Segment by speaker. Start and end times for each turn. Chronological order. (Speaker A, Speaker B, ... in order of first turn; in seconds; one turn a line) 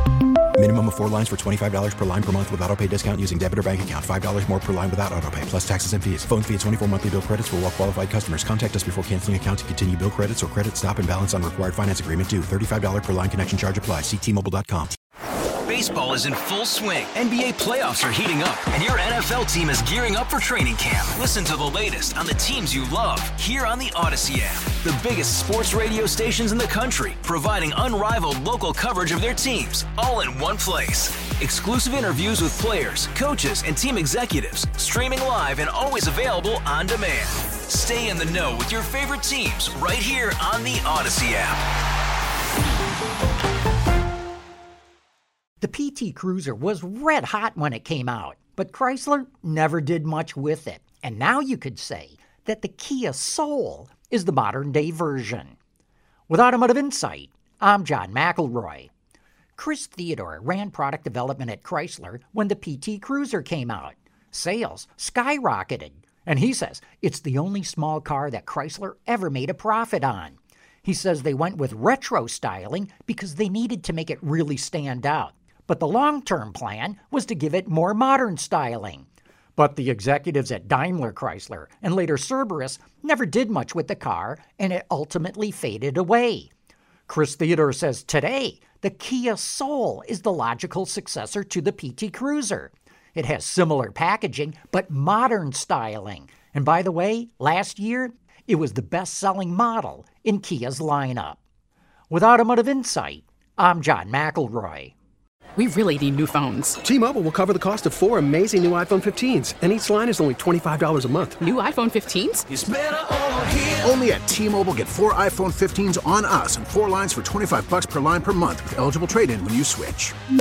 Speaker A: 0.6-14.9
Speaker B: 15.7-41.6
Speaker C: 45.6-55.5
Speaker C: 56.3-58.9
Speaker C: 59.6-79.0
Speaker C: 79.6-86.5
Speaker C: 87.1-101.4
Speaker C: 102.1-104.9
Speaker D: 105.5-106.8
Speaker E: 106.8-111.4
Speaker D: 111.4-112.5
Speaker F: 113.6-120.1